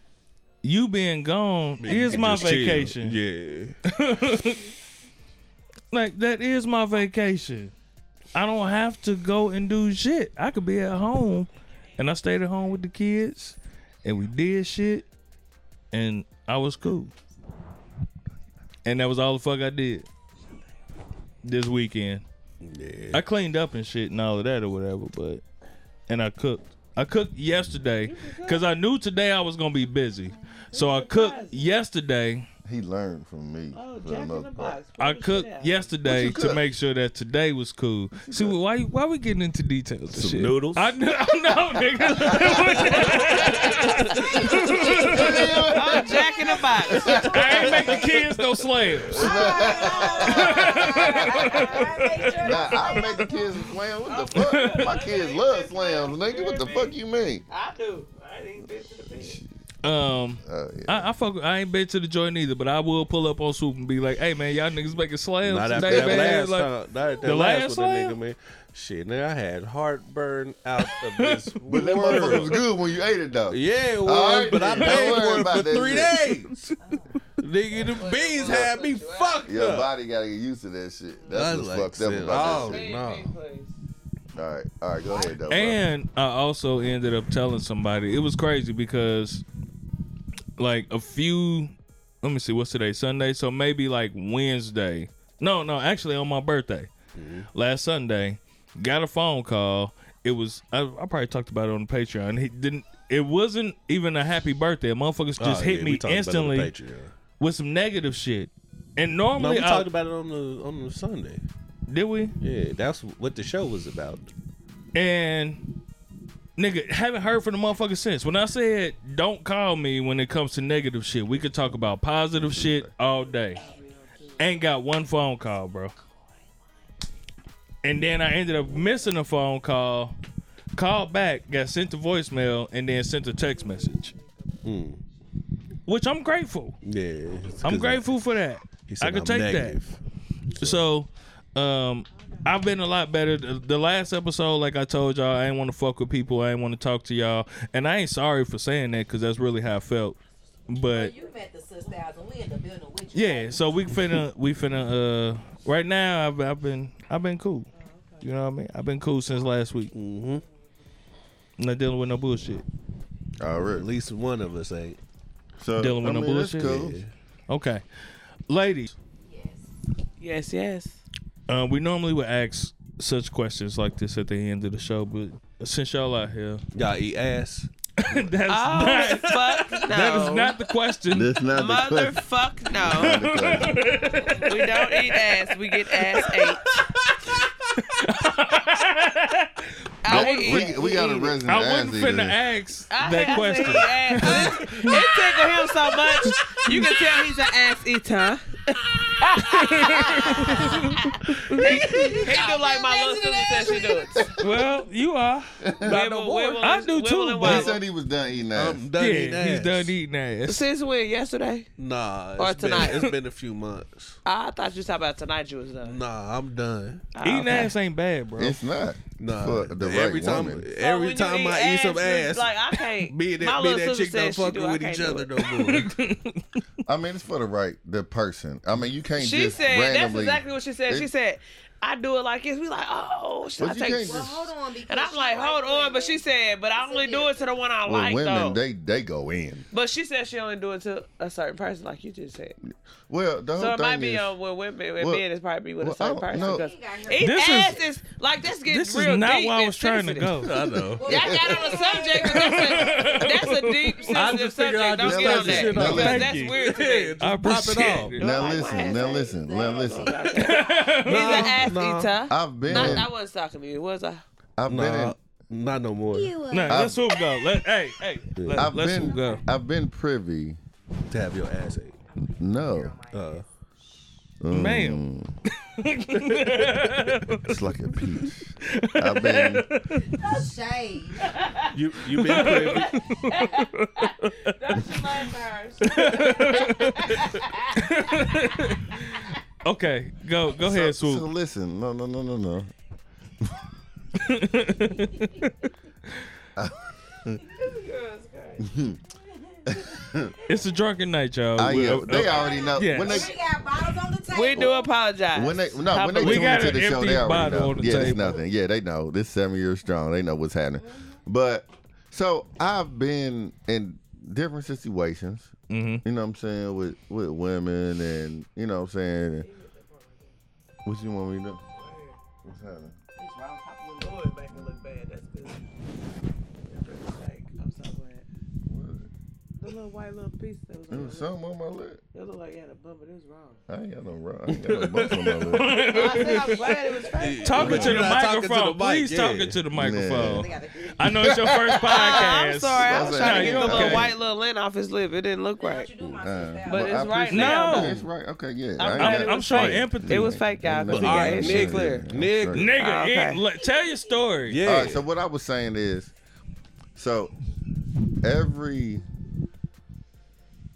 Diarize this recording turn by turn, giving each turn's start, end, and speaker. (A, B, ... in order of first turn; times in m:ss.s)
0:00.6-0:03.2 A
0:01.8-0:03.8 B
0:03.8-0:04.6 A
0:05.9-0:07.7 A
0:08.3-0:15.1 A
0:15.9-0:17.1 A
0:18.8-0:20.1 A
0:21.4-0:22.2 A
0:22.6-0:23.2 B
0:23.1-0:25.4 A
0:26.1-0:32.5 A
0:28.0-0:28.7 C
0:30.7-0:31.7 C
0:32.6-0:34.8 D
0:33.7-0:35.8 C
0:35.0-0:45.6 A
0:36.0-0:36.6 D
0:38.3-0:38.6 D
0:40.1-0:41.0 B
0:42.0-0:48.0 D
0:44.3-0:45.4 E
0:45.7-0:48.0 C
0:47.0-0:48.2 E
0:47.1-0:49.6 A
0:49.1-0:51.7 D
0:49.2-0:53.6 E
0:49.6-0:50.3 C
0:50.2-0:51.9 A
0:51.4-0:52.6 C
0:52.4-0:57.4 D
0:54.0-0:57.0 C
0:54.5-0:54.9 A
0:57.5-0:59.4 C
0:59.2-0:59.4 D
0:59.8-1:06.7 A
1:00.4-1:01.1 D
1:05.4-1:12.6 B
1:05.9-1:06.2 D
1:07.2-1:08.2 A
1:10.9-1:11.4 A
1:11.7-1:16.2 D
1:13.5-1:16.8 B
1:16.8-1:17.1 E
1:17.4-1:19.9 B
1:17.8-1:19.6 C
1:19.5-1:22.8 D
1:21.3-1:23.3 B
1:22.3-1:23.8 C
1:24.4-1:25.9 D
1:25.1-1:25.4 E
1:25.5-1:29.4 A
1:30.6-1:36.9 A
1:37.2-1:37.5 B
1:37.5-1:46.7 A
1:45.4-1:47.2 B
1:47.3-1:49.9 A
1:49.4-1:51.4 B
1:51.9-1:52.4 A
1:52.4-1:54.3 B
1:55.0-1:55.7 A
1:56.6-2:03.6 A
2:02.4-2:02.9 D
2:03.6-2:04.6 C
2:04.4-2:05.9 A
2:07.8-2:10.2 A
2:10.8-2:14.1 A
2:13.5-2:14.6 C
2:14.6-2:15.0 B
2:15.9-2:16.8 A
2:16.8-2:20.0 B
2:17.6-2:19.8 A
2:20.6-2:20.9 B
2:20.6-2:31.1 A
2:30.9-2:33.8 E
2:33.1-2:37.7 A
2:37.8-2:38.2 C
2:38.2-2:40.0 A
2:39.9-2:40.4 B
2:41.6-2:42.6 A
2:43.4-2:43.9 D
2:43.6-2:45.0 B
2:45.6-2:47.0 D
2:45.8-2:46.8 A
2:46.6-2:47.1 B
2:47.5-2:47.8 A
2:48.5-2:49.0 A
2:49.3-2:49.6 E
2:50.2-2:51.0 C
2:51.5-2:56.6 A
2:56.7-2:57.7 B
2:58.0-3:01.4 A
2:58.5-3:00.7 C
2:58.8-2:59.8 B
3:01.1-3:02.2 D
3:01.5-3:03.2 C
3:02.8-3:03.9 D
3:02.9-3:06.3 A
3:04.3-3:06.6 C
3:07.8-3:10.8 A
3:10.0-3:11.4 C
3:10.1-3:12.4 D
3:11.4-3:15.1 A
3:12.9-3:18.6 C
3:16.2-3:17.0 A
3:19.2-3:20.8 C
3:19.4-3:21.9 A
3:19.6-3:20.8 E
3:21.5-3:24.4 C
3:21.6-3:24.3 E
3:24.4-3:27.8 A
3:25.6-3:26.0 D
3:25.8-3:27.8 C
3:26.0-3:26.5 B
3:27.4-3:28.8 D
3:28.5-3:30.0 B
3:29.0-3:30.7 A
3:30.5-3:31.7 C
3:31.8-3:34.2 B
3:32.4-3:33.0 C
3:34.2-3:36.0 C
3:35.8-3:37.1 B
3:37.2-3:37.7 C
3:37.2-3:38.6 A
3:38.4-3:40.7 D
3:39.2-3:45.9 B
3:40.8-3:45.3 C
3:45.6-3:46.6 A
3:46.9-3:51.1 D
3:49.2-3:54.3 C
3:53.6-3:54.5 D
3:53.9-3:56.2 E
3:54.9-3:58.6 C
3:56.8-3:57.5 E
3:57.9-3:59.7 D
3:59.7-4:02.6 C
4:03.1-4:04.3 D
4:03.6-4:10.5 C
4:05.8-4:06.7 D
4:06.3-4:07.7 E
4:07.2-4:07.8 A
4:08.7-4:10.7 A
4:10.4-4:11.2 B
4:11.0-4:13.4 E
4:11.0-4:17.2 C
4:11.1-4:11.8 D
4:12.2-4:14.1 A
4:14.1-4:18.2 B
4:15.0-4:16.2 D
4:15.6-4:16.6 A
4:17.2-4:18.7 A
4:18.2-4:24.2 C
4:18.2-4:20.3 D
4:18.8-4:19.9 E
4:20.2-4:23.1 B
4:20.4-4:21.6 A
4:22.3-4:23.1 D
4:24.6-4:25.2 D
4:24.7-4:26.4 B
4:26.1-4:26.9 E
4:26.5-4:29.4 A
4:26.7-4:27.0 D
4:28.4-4:28.8 B
4:28.5-4:30.6 D
4:28.8-4:29.4 E
4:31.1-4:32.0 B
4:32.1-4:33.4 E
4:32.2-4:33.0 D
4:33.1-4:33.4 B
4:34.4-4:35.3 D
4:34.5-4:40.1 A
4:37.4-4:39.7 D
4:40.1-4:41.3 E
4:41.4-4:41.7 C
4:41.7-4:43.1 B
4:42.1-4:44.6 A
4:42.3-4:43.7 C
4:44.3-4:47.4 C
4:45.8-4:51.3 A
4:50.6-4:52.7 D
4:54.2-4:55.7 A
4:56.6-4:57.4 D
4:57.5-4:58.7 C
4:58.6-4:59.0 D
4:59.7-5:00.4 D
5:00.5-5:03.2 A
5:01.6-5:03.4 D
5:02.2-5:04.8 E
5:04.3-5:06.9 C
5:05.3-5:19.5 D
5:06.2-5:08.4 A
5:10.8-5:11.2 E
5:15.7-5:16.0 A
5:19.4-5:20.4 C
5:20.8-5:21.6 D
5:21.8-5:22.2 C
5:22.4-5:23.0 D
5:23.2-5:24.2 E
5:24.0-5:25.6 C
5:26.6-5:28.3 C
5:28.7-5:29.1 D
5:29.6-5:31.4 C
5:30.9-5:32.0 D
5:32.1-5:33.6 C
5:33.7-5:36.0 D
5:34.5-5:35.4 B
5:35.5-5:36.7 A
5:35.7-5:38.1 C
5:37.2-5:39.7 B
5:37.4-5:44.1 A
5:37.6-5:38.0 D
5:39.7-5:42.0 D
5:40.1-5:41.1 E
5:41.9-5:45.9 C
5:42.8-5:44.1 D
5:45.6-5:47.4 E
5:46.2-5:52.7 D
5:46.7-5:48.0 C
5:47.3-5:48.0 A
5:48.8-5:52.1 C
5:49.0-5:50.4 A
5:50.9-5:52.8 B
5:52.5-5:54.6 A
5:52.8-5:53.4 C
5:54.5-5:55.0 B
5:54.6-5:56.1 D
5:57.0-5:57.3 D
5:58.2-5:59.0 D